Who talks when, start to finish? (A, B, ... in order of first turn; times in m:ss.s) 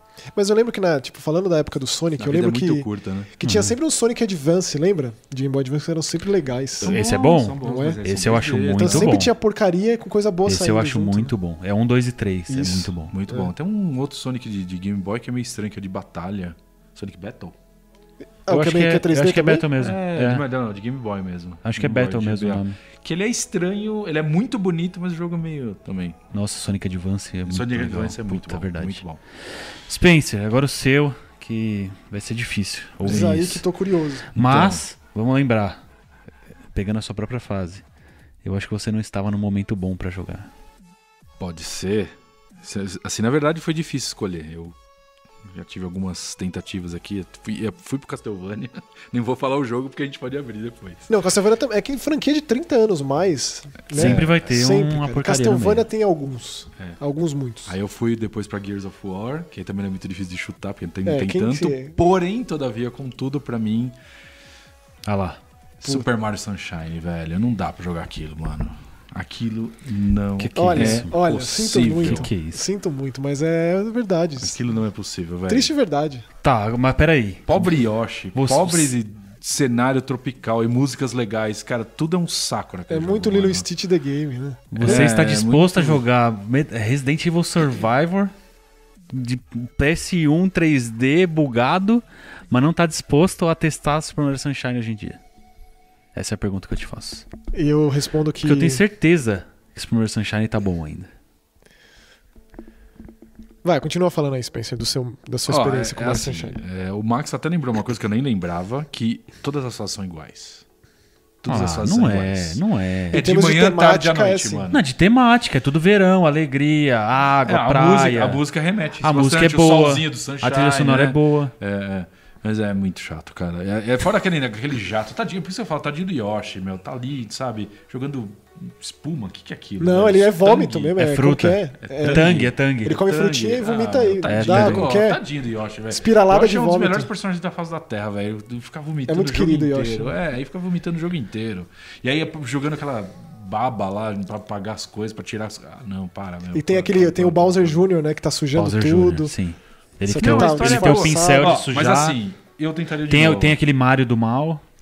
0:00.4-0:07.0 A
0:02.2-0:03.4 B
0:03.4-0:03.8 C
0:06.8-0:09.2 B
0:06.8-0:09.3 C
0:07.6-0:08.0 A
0:08.8-0:11.3 A
0:10.5-0:13.1 C
0:12.5-0:13.5 A
0:13.1-0:17.6 B
0:18.4-0:19.7 A
0:18.5-0:20.4 C
0:19.8-0:26.2 B
0:21.6-0:22.8 C
0:26.3-0:29.0 C
0:27.5-0:29.2 B
0:29.9-0:33.6 C
0:33.0-0:33.5 B
0:33.0-0:34.3 A
0:34.3-0:35.8 C
0:34.4-0:34.8 B
0:36.7-0:37.8 C
0:38.4-0:40.5 C
0:41.4-0:44.8 B
0:45.5-0:51.1 B
0:51.1-0:57.7 A
0:53.9-0:54.5 B
0:53.9-0:55.9 C
0:57.7-1:04.0 B
1:01.0-1:02.0 A
1:05.1-1:05.4 C
1:05.8-1:12.3 B
1:10.4-1:11.1 C
1:10.6-1:14.6 A
1:12.0-1:12.6 C
1:14.4-1:15.7 B
1:15.5-1:16.3 A
1:16.4-1:17.7 C
1:17.5-1:23.7 B
1:18.3-1:19.0 C
1:22.9-1:25.1 A
1:24.7-1:28.3 C
1:24.8-1:26.0 B
1:29.1-1:35.2 C
1:36.2-1:37.2 C
1:37.5-1:38.8 A
1:38.4-1:41.1 C
1:43.6-1:46.6 A
1:45.5-1:50.6 B
1:51.4-1:54.8 B
1:51.5-1:53.2 C
1:53.1-1:54.7 A
1:54.7-1:58.4 C
1:57.4-2:11.0 B
1:59.0-2:01.5 C
2:09.8-2:15.2 A
2:11.0-2:13.0 C
2:11.8-2:27.8 B
2:14.2-2:15.0 C
2:15.9-2:17.1 A
2:19.1-2:20.1 A
2:26.5-2:29.4 A
2:28.6-2:32.2 C
2:30.0-2:31.6 A
2:30.2-2:33.6 B
2:33.1-2:34.6 C